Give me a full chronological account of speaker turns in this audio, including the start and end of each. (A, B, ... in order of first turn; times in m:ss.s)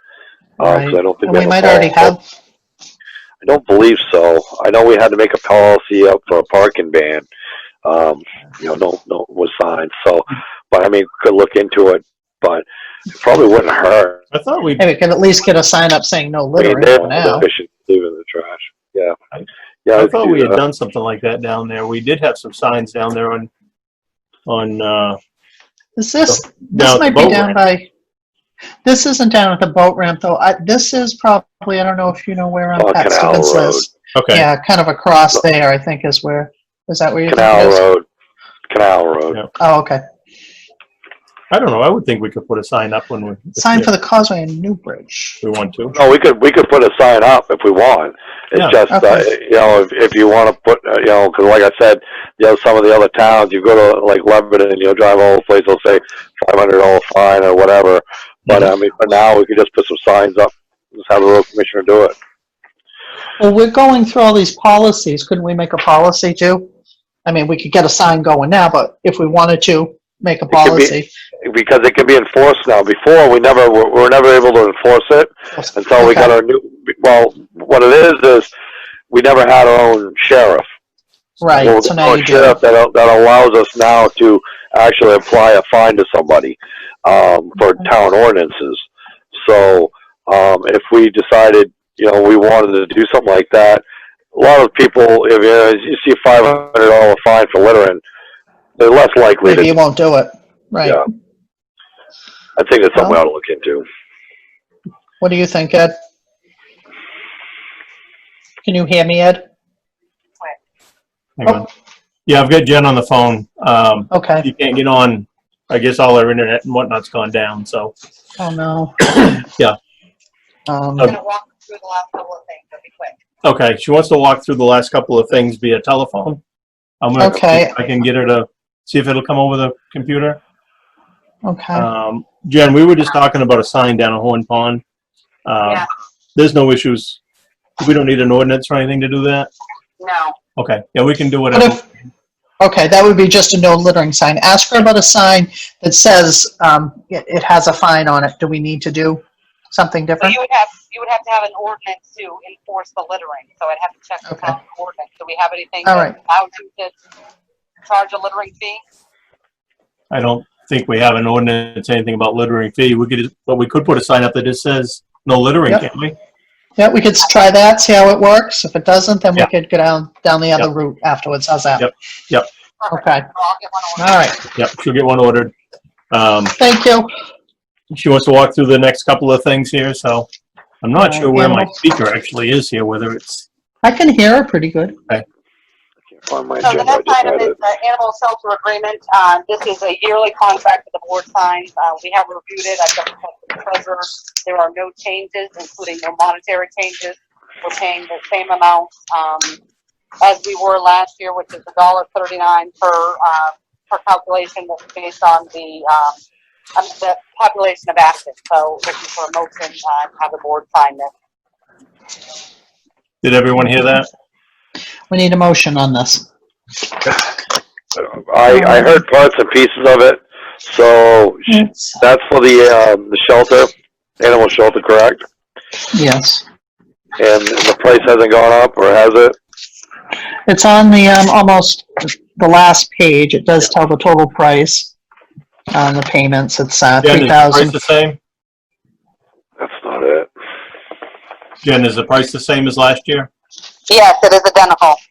0:00.6-0:02.2 A
0:00.6-0:02.1 B
0:03.4-0:07.3 B
0:07.8-0:14.2 B
0:14.3-0:14.8 C
0:14.8-0:17.5 A
0:16.6-0:19.2 B
0:19.3-0:23.5 C
0:19.8-0:20.6 B
0:24.5-0:25.2 C
0:26.0-0:27.9 A
0:26.3-0:27.6 C
0:28.8-0:37.8 A
0:32.8-0:33.8 B
0:34.2-0:34.5 C
0:37.3-0:38.0 B
0:38.7-0:39.4 B
0:39.6-0:40.0 A
0:41.5-0:43.9 C
0:43.6-0:45.4 A
0:45.4-0:46.0 C
0:45.9-1:02.1 B
0:48.9-0:49.3 A
1:03.4-1:06.7 A
1:07.3-1:11.1 A
1:10.5-1:10.9 B
1:11.4-1:18.5 B
1:15.5-1:16.3 A
1:19.1-1:20.7 B
1:21.4-1:22.6 A
1:21.6-1:33.8 B
1:34.3-1:38.0 B
1:38.8-1:39.7 B
1:39.4-1:41.0 A
1:42.6-1:43.9 B
1:45.2-1:45.9 A
1:48.6-1:49.4 A
1:51.4-1:51.7 C
1:52.3-1:57.9 C
1:54.1-1:54.5 A
1:58.4-1:59.5 A
2:00.7-2:01.2 A
2:01.0-2:03.2 D
2:03.4-2:06.4 C
2:07.0-2:10.4 C
2:07.2-2:07.8 A
2:11.4-2:11.9 A
2:11.8-2:14.8 C
2:15.5-2:17.2 C
2:15.6-2:15.9 D
2:17.8-2:19.5 C
2:20.0-2:20.4 D
2:20.6-2:21.8 C
2:21.5-2:21.8 A
2:22.6-2:30.4 A
2:30.2-2:36.9 D
2:34.3-2:34.6 A
2:35.8-2:36.2 A
2:37.8-2:38.8 D
2:40.1-2:46.2 C
2:46.8-2:51.9 A
2:51.8-2:52.5 C
2:52.8-2:54.4 D
2:52.9-2:53.3 A
2:54.0-2:54.4 A
2:54.6-2:55.5 C
2:56.1-2:56.5 C
2:56.6-2:57.1 A
2:57.9-3:00.3 C
3:00.8-3:03.4 C
3:01.0-3:01.7 A
3:03.8-3:05.0 A
3:06.2-3:07.6 B
3:06.6-3:19.6 D
3:20.2-3:26.2 D
3:26.8-3:31.1 D
3:33.2-3:34.1 C
3:35.1-3:36.3 A
3:38.0-3:45.2 B
3:38.5-3:38.9 A
3:41.5-3:42.0 A
3:45.9-3:46.4 A
3:47.2-3:49.4 B
3:50.5-3:54.9 A
3:55.7-3:57.8 A
3:57.0-3:58.2 C
3:59.6-4:00.3 B
4:01.6-4:03.3 C
4:03.9-4:05.0 D